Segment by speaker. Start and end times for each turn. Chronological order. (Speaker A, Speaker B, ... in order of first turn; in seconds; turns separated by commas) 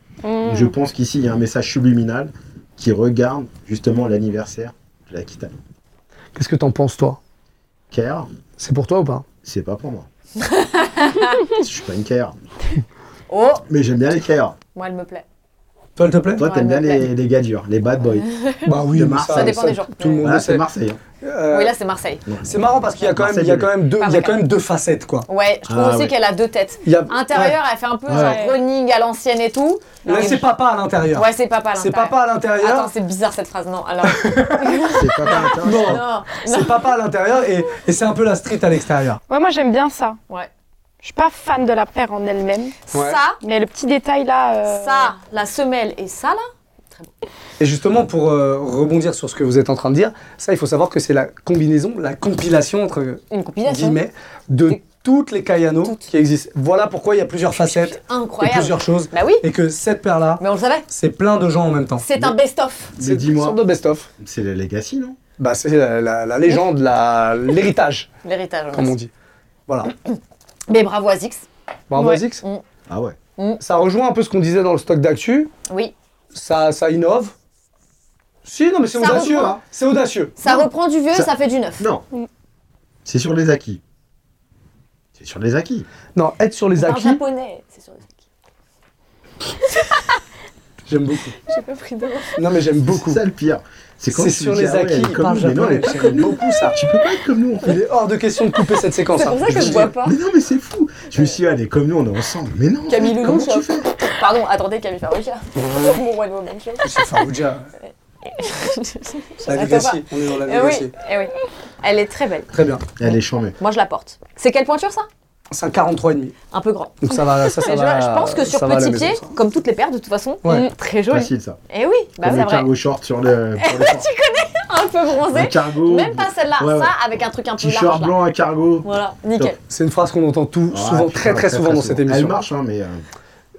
Speaker A: 0.2-0.8, Speaker B: 0.4-5.5, Speaker C: 6.4-7.2, Speaker B: 7.9-8.3, Speaker C: 8.6-9.2, Speaker B: 9.4-10.1, Speaker D: 10.4-11.5, Speaker B: 11.5-12.3, Speaker D: 13.3-13.7, Speaker B: 13.7-14.6, Speaker D: 14.8-15.2, Speaker C: 16.0-16.4, Speaker B: 16.4-18.3, Speaker D: 16.4-17.1, Speaker D: 18.2-20.3, Speaker C: 18.6-20.6, Speaker B: 18.9-19.6, Speaker B: 20.2-21.0, Speaker C: 21.2-21.8, Speaker D: 21.5-22.3, Speaker C: 22.4-25.3, Speaker B: 23.0-23.7, Speaker D: 24.0-24.4, Speaker D: 25.3-30.5, Speaker B: 25.7-26.1, Speaker C: 26.9-27.6, Speaker B: 28.1-28.5, Speaker A: 28.1-28.6, Speaker C: 30.1-32.9, Speaker A: 30.1-30.4, Speaker D: 31.1-36.9, Speaker C: 34.1-39.2, Speaker B: 34.9-36.1, Speaker A: 39.3-40.2, Speaker A: 41.0-42.8, Speaker D: 42.8-43.4, Speaker C: 42.9-43.2, Speaker A: 43.4-45.1, Speaker D: 44.7-47.1, Speaker C: 47.6-62.4, Speaker D: 53.3-54.0, Speaker D: 55.8-56.1, Speaker D: 57.5-59.5, Speaker D: 60.4-60.9, Speaker D: 62.0-62.9, Speaker B: 63.0-63.6, Speaker C: 63.0-64.1, Speaker B: 64.2-65.2, Speaker C: 65.4-68.1, Speaker D: 68.2-69.0, Speaker C: 68.7-69.1, Speaker C: 69.7-69.9, Speaker D: 70.7-71.5, Speaker C: 71.9-72.4, Speaker A: 72.0-72.2, Speaker B: 72.9-73.2, Speaker C: 73.6-75.5, Speaker D: 75.7-75.9, Speaker C: 76.3-77.3, Speaker C: 78.5-80.3, Speaker D: 78.9-79.6, Speaker B: 79.0-79.6, Speaker D: 80.4-81.8, Speaker B: 80.4-82.0, Speaker B: 83.0-83.8, Speaker B: 85.2-85.9, Speaker C: 86.2-87.2, Speaker D: 86.8-88.2, Speaker D: 89.7-90.1, Speaker C: 90.9-91.4, Speaker D: 91.5-92.4, Speaker C: 92.3-93.2, Speaker B: 92.9-97.8, Speaker C: 94.1-96.8, Speaker C: 97.6-99.9, Speaker D: 99.1-100.2, Speaker B: 99.6-103.9, Speaker D: 102.9-107.3, Speaker C: 106.8-107.7, Speaker D: 108.2-112.5, Speaker C: 109.5-110.9, Speaker C: 112.5-112.8, Speaker B: 113.0-113.5, Speaker D: 113.6-115.1, Speaker C: 115.5-116.4, Speaker D: 116.5-122.7, Speaker C: 117.0-119.3, Speaker B: 121.1-121.6, Speaker B: 122.2-124.1, Speaker D: 123.6-128.2, Speaker B: 125.3-127.0, Speaker B: 127.6-129.6, Speaker D: 128.8-129.6, Speaker C: 129.7-132.4, Speaker B: 130.7-133.0